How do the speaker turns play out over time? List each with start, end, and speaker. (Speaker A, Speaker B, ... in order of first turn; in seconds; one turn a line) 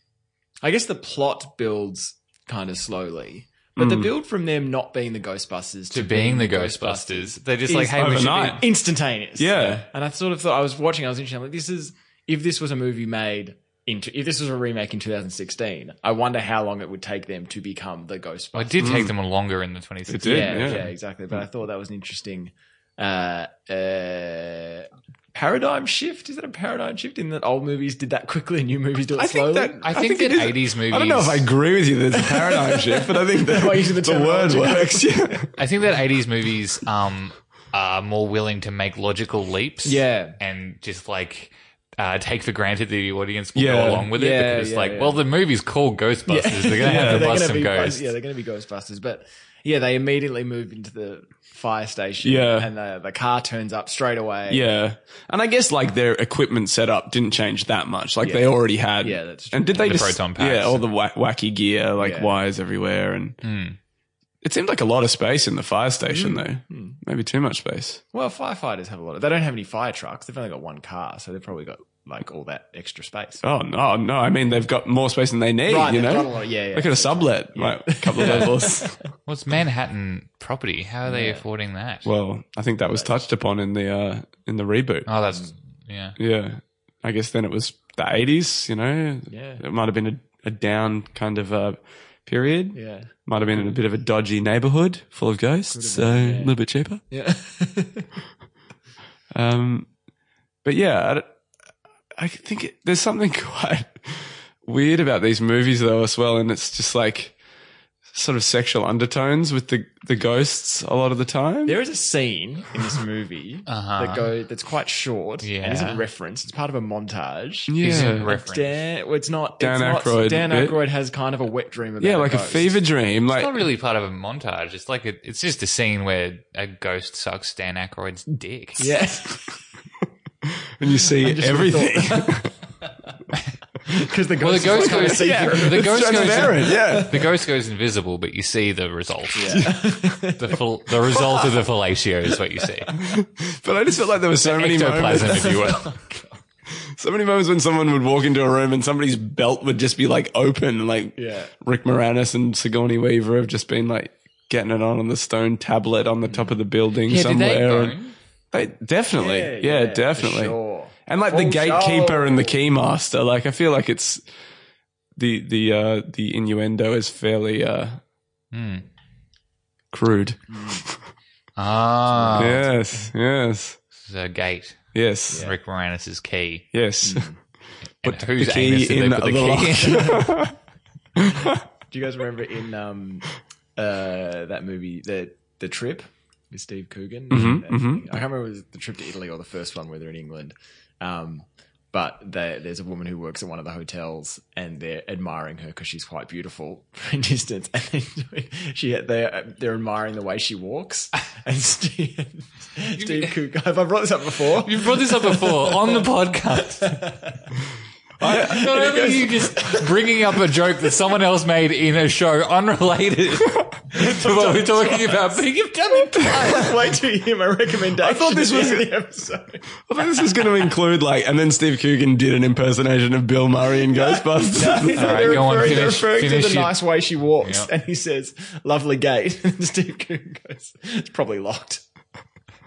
Speaker A: 0.6-19.0
Speaker B: 3.8-4.1
Speaker C: 5.9-8.6
Speaker B: 7.9-8.6
Speaker B: 9.4-9.8
Speaker C: 18.5-20.9
Speaker B: 18.8-19.1
Speaker B: 20.1-20.9
Speaker A: 20.2-29.8
Speaker B: 29.1-35.5
Speaker C: 29.8-31.5
Speaker A: 32.1-35.5
Speaker C: 35.6-48.1
Speaker A: 39.8-40.4
Speaker B: 43.5-44.1
Speaker A: 44.1-45.2
Speaker A: 46.3-54.7
Speaker B: 46.8-47.3
Speaker B: 52.2-52.7
Speaker B: 54.5-63.4
Speaker A: 58.2-60.1
Speaker C: 59.8-60.8
Speaker A: 62.0-62.4
Speaker C: 63.4-63.8
Speaker B: 64.4-68.0
Speaker A: 66.1-67.0
Speaker A: 68.1-73.4
Speaker B: 73.4-79.0
Speaker A: 75.7-79.1
Speaker C: 78.2-78.5
Speaker C: 79.2-82.1
Speaker A: 81.0-81.4
Speaker B: 82.0-85.1
Speaker A: 82.8-83.1
Speaker C: 85.1-86.2
Speaker B: 86.2-97.0
Speaker A: 89.3-89.6
Speaker A: 92.7-93.7
Speaker A: 95.7-96.5
Speaker A: 97.1-98.1
Speaker B: 99.3-99.9
Speaker B: 100.6-101.3
Speaker B: 102.1-107.3
Speaker B: 108.1-111.8
Speaker A: 111.6-122.8
Speaker C: 113.7-114.3
Speaker C: 115.4-116.0
Speaker B: 117.7-118.3
Speaker C: 117.8-118.8
Speaker B: 119.6-120.8
Speaker B: 122.0-123.5
Speaker C: 123.3-128.9
Speaker A: 128.8-129.4
Speaker B: 130.8-132.5
Speaker A: 131.2-132.5
Speaker A: 133.8-137.2
Speaker C: 134.4-143.0
Speaker B: 134.7-137.3
Speaker A: 139.3-140.6
Speaker B: 139.5-139.8
Speaker B: 142.9-145.7
Speaker C: 144.4-146.0
Speaker A: 145.3-146.3
Speaker B: 146.8-157.9
Speaker A: 151.2-151.5
Speaker A: 156.3-156.6
Speaker C: 157.0-158.1
Speaker B: 158.5-160.5
Speaker A: 159.1-162.6
Speaker B: 161.1-164.2
Speaker B: 165.2-168.0
Speaker C: 168.5-168.8
Speaker B: 169.9-171.0
Speaker A: 170.5-170.8
Speaker C: 171.6-172.7
Speaker A: 172.1-172.7
Speaker B: 172.3-173.8
Speaker C: 174.0-176.7
Speaker B: 174.9-175.5
Speaker B: 176.7-177.3
Speaker A: 177.0-177.4
Speaker C: 178.0-180.3
Speaker B: 178.0-180.5
Speaker B: 181.2-181.6
Speaker A: 181.3-206.1
Speaker B: 187.3-188.0
Speaker C: 203.0-203.3
Speaker C: 204.6-207.1
Speaker A: 206.8-207.4
Speaker A: 208.2-210.1
Speaker B: 208.2-208.6
Speaker C: 208.3-216.6
Speaker A: 213.9-219.6
Speaker B: 218.0-218.9
Speaker B: 219.8-225.6
Speaker A: 223.9-231.8
Speaker C: 224.9-226.8
Speaker C: 227.4-227.7